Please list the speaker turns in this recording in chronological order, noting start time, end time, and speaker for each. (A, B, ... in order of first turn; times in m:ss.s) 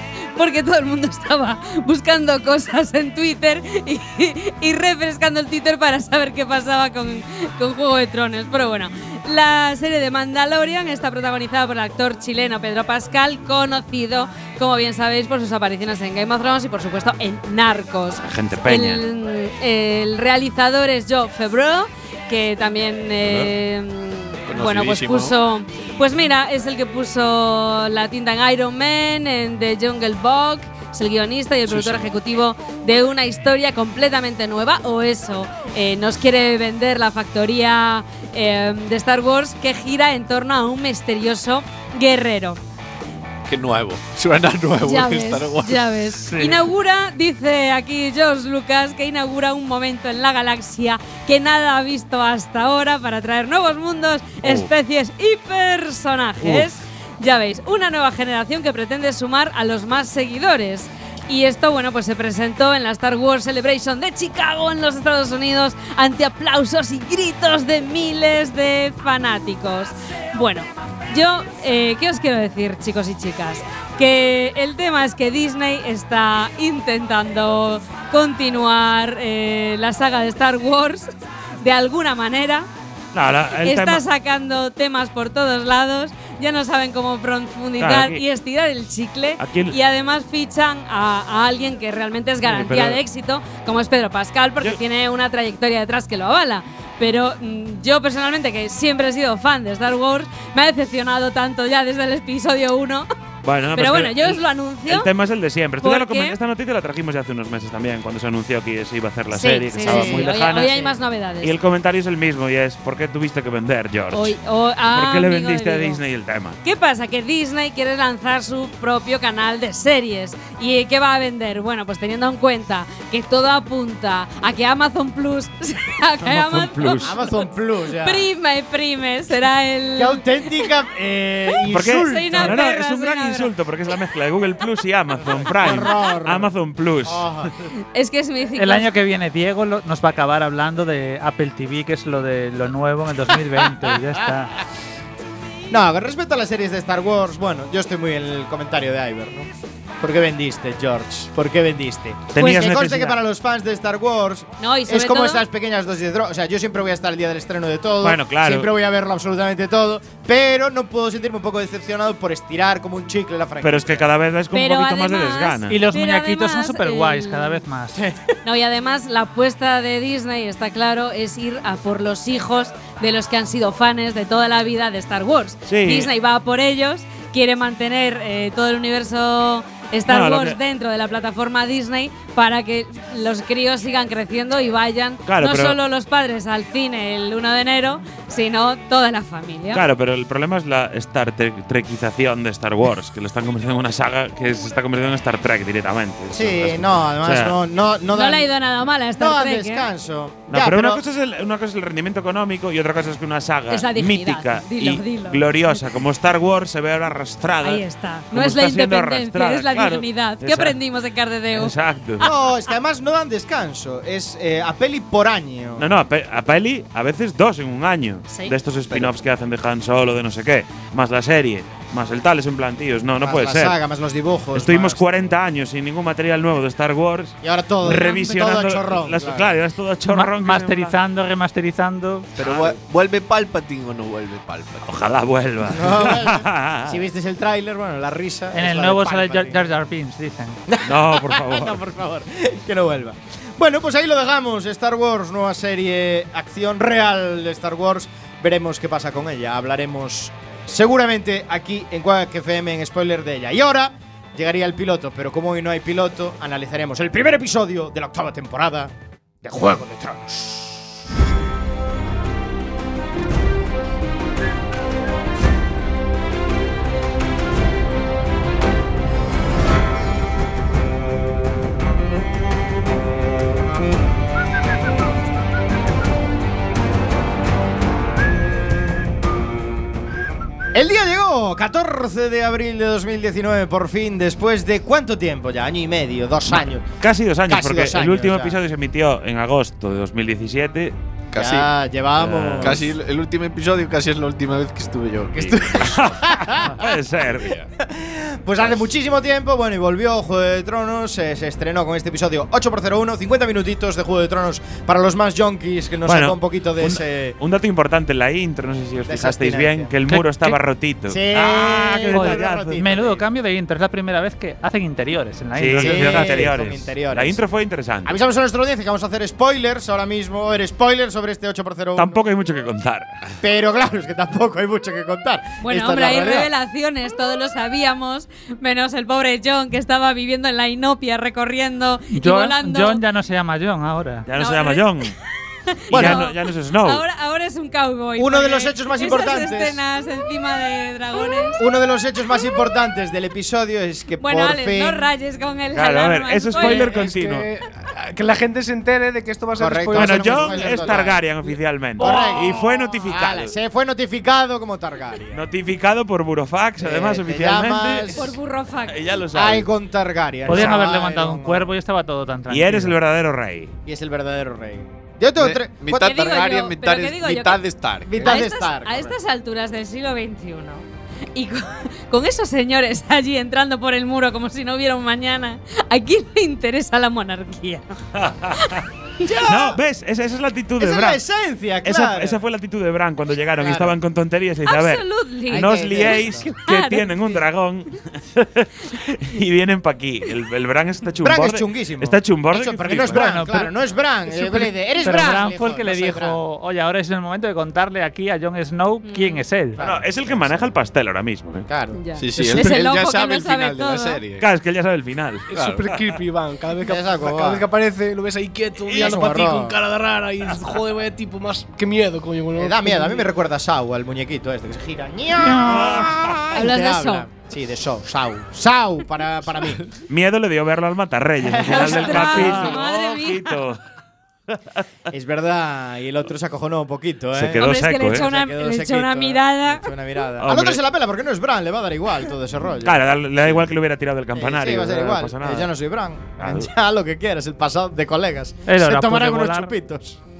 0:00.4-0:42.6 A
0:18.2-0:19.0 B
0:23.2-0:23.5 B
0:24.5-0:25.4 C
0:31.7-0:32.1 C
0:43.5-0:45.9 C
0:44.8-1:22.7 A
0:54.4-0:54.7 B
0:56.4-0:56.7 B
1:23.1-1:24.0 B
1:23.6-1:43.1 A
1:27.8-1:28.2 B
1:29.4-1:29.8 B
1:32.4-1:33.0 B
1:43.4-1:54.4 B
1:43.8-1:45.1 A
1:45.8-1:46.4 A
1:49.3-1:51.5 A
1:49.8-1:50.3 D
1:54.1-1:56.0 A
1:54.9-1:56.6 B
1:56.6-2:07.3 A
2:06.2-2:07.2 B
2:07.0-2:08.3 D
2:07.9-2:10.7 A
2:10.0-2:12.6 D
2:11.7-2:17.3 B
2:12.0-2:13.5 A
2:15.3-2:16.5 D
2:17.0-2:17.5 D
2:17.9-2:18.9 A
2:18.6-2:24.5 E
2:25.7-2:29.5 D
2:30.0-2:44.0 D
2:32.3-2:33.2 B
2:34.6-2:35.4 A
2:38.0-2:38.7 B
2:43.6-2:45.8 B
2:44.5-2:47.6 A
2:45.7-2:48.0 E
2:48.4-3:09.8 A
2:55.7-2:56.1 B
3:00.1-3:00.6 B
3:05.3-3:05.8 B
3:09.7-3:17.6 B
3:16.3-3:18.5 D
3:18.1-3:19.9 A
3:19.2-3:21.0 D
3:20.5-3:30.8 B
3:23.7-3:25.9 A
3:27.6-3:32.5 A
3:31.5-3:32.3 B
3:32.2-3:35.8 D
3:35.8-3:43.8 B
3:38.3-3:38.6 A
3:43.2-3:45.0 D
3:44.6-3:51.0 B
3:47.4-3:49.5 D
3:47.9-3:48.4 A
3:50.1-3:52.3 E
3:52.4-3:55.1 C
3:52.4-3:52.8 B
3:54.9-3:57.0 B
3:55.7-3:59.6 D
3:58.5-4:00.6 E
4:00.7-4:18.9 D
4:00.8-4:01.8 B
4:19.4-4:20.6 D
4:40.7-4:46.8 D
4:46.5-4:50.9 B
4:47.5-4:48.6 D
4:51.3-4:51.7 C
4:51.4-4:52.9 D
4:52.2-4:52.8 B
4:52.6-4:56.5 C
4:55.4-4:57.6 B
4:56.5-4:56.7 D
4:57.4-4:57.7 C
4:57.8-5:07.4 D
5:06.0-5:13.2 B
5:09.1-5:09.9 D
5:10.1-5:10.6 E
5:11.1-5:13.0 D
5:12.1-5:16.6 E
5:15.6-5:18.2 B
5:15.8-5:17.4 D
5:18.0-5:22.2 D
5:22.0-5:23.2 B
5:23.4-5:26.5 D
5:25.6-5:33.0 A
5:32.1-5:34.3 E
5:34.3-5:35.1 B
5:34.3-5:35.1 A
5:35.7-5:41.6 A
5:35.9-5:37.0 B
5:35.9-5:36.3 D
5:38.2-5:39.8 D
5:41.6-5:45.0 D
5:44.2-5:46.9 A
5:45.7-5:47.5 B
5:46.6-5:51.2 F
5:49.6-5:51.2 D
5:49.9-5:53.5 B
5:52.0-5:55.4 D
5:55.3-5:58.3 B
5:56.8-5:58.4 D
5:58.1-5:59.0 A
5:58.9-5:59.7 B
5:59.3-6:01.7 D
6:00.5-6:03.0 E
6:00.5-6:00.8 B
6:02.5-6:03.8 B
6:03.9-6:06.3 D
6:05.4-6:08.4 C
6:06.0-6:07.6 A
6:08.0-6:09.1 D
6:08.2-6:18.0 A
6:18.2-6:18.8 B
6:19.2-6:19.8 D
6:19.5-6:21.2 B
6:20.8-6:22.4 D
6:21.8-6:33.2 B
6:23.6-6:23.9 D
6:24.6-6:27.4 A
6:25.5-6:26.5 D
6:31.2-6:36.4 D
6:33.1-6:33.7 E
6:34.3-6:39.8 E
6:39.0-6:39.4 A
6:39.8-6:40.7 D
6:39.8-6:41.7 B
6:41.7-6:42.0 D
6:41.9-6:44.2 A
6:42.2-6:44.4 C
6:44.4-6:45.5 B
6:45.5-6:53.3 F
6:45.5-6:46.0 C
6:46.8-6:47.7 D
6:48.9-6:49.8 D
6:52.6-6:59.8 D
6:55.6-6:56.4 B
6:56.5-6:57.3 A
7:00.1-7:03.8 B
7:01.4-7:02.9 D
7:01.7-7:03.6 A
7:04.5-7:04.8 B
7:05.1-7:13.0 D
7:07.3-7:08.2 B
7:07.6-7:09.9 A
7:10.4-7:10.8 B
7:12.8-7:15.7 B
7:14.4-7:20.2 D
7:16.4-7:16.7 B
7:18.7-7:19.7 E